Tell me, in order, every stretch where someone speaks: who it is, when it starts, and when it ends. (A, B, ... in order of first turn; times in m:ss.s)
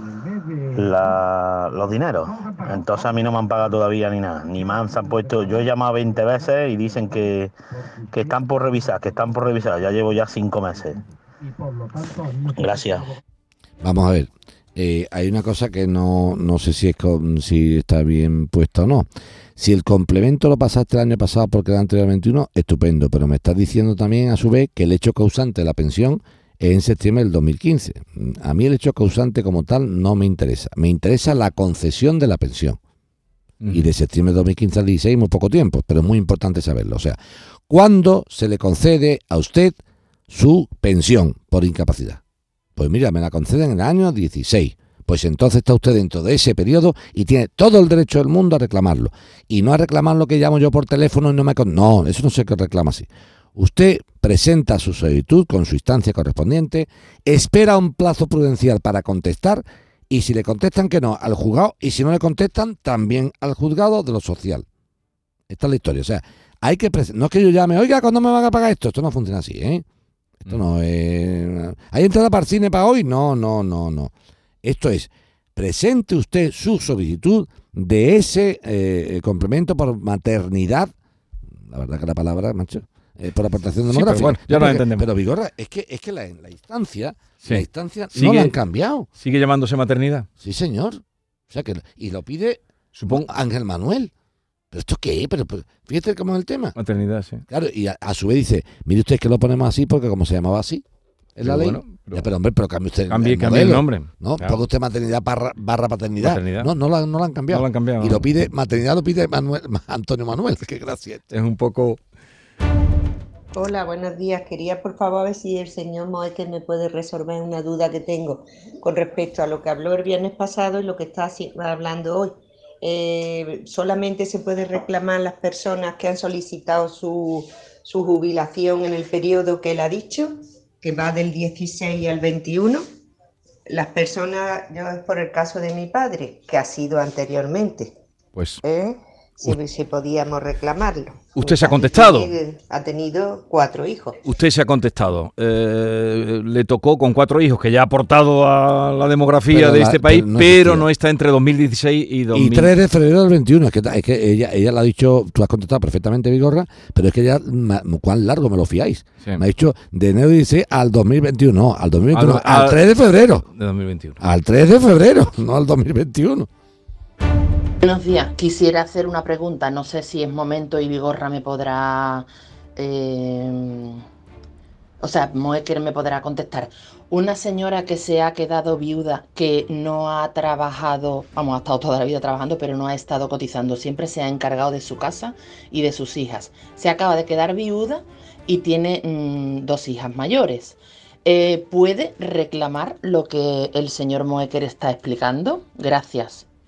0:00.8-0:07.5 A
0:08.1-0:11.0 A
0:12.5-0:13.0 A
0:13.8-0:32.8 B
0:33.6-0:33.9 C
0:33.7-0:37.2 B
0:37.7-0:42.2 B
0:42.8-1:04.6 B
1:05.5-1:09.8 B
1:10.4-1:14.1 B
1:14.6-1:20.9 B
1:21.6-1:29.1 B
1:23.9-1:25.1 C
1:27.4-1:28.5 C
1:29.2-1:30.3 C
1:30.4-1:34.1 B
1:32.9-1:33.3 C
1:34.7-1:36.8 B
1:36.8-1:37.4 C
1:37.5-1:40.8 B
1:41.4-1:51.3 B
1:41.4-1:42.3 C
1:43.1-1:44.6 C
1:46.2-1:46.7 C
1:47.5-1:48.3 C
1:51.3-1:52.0 C
1:53.5-2:12.8 D
2:13.7-2:17.9 D
2:18.4-2:18.6 C
2:18.6-2:24.2 D
2:21.4-2:22.3 C
2:24.2-2:32.7 C
2:29.5-2:30.9 B
2:32.3-2:43.4 B
2:42.1-2:42.8 C
2:43.4-2:44.2 C
2:44.2-2:46.5 B
2:47.8-2:54.0 E
2:55.0-3:16.5 E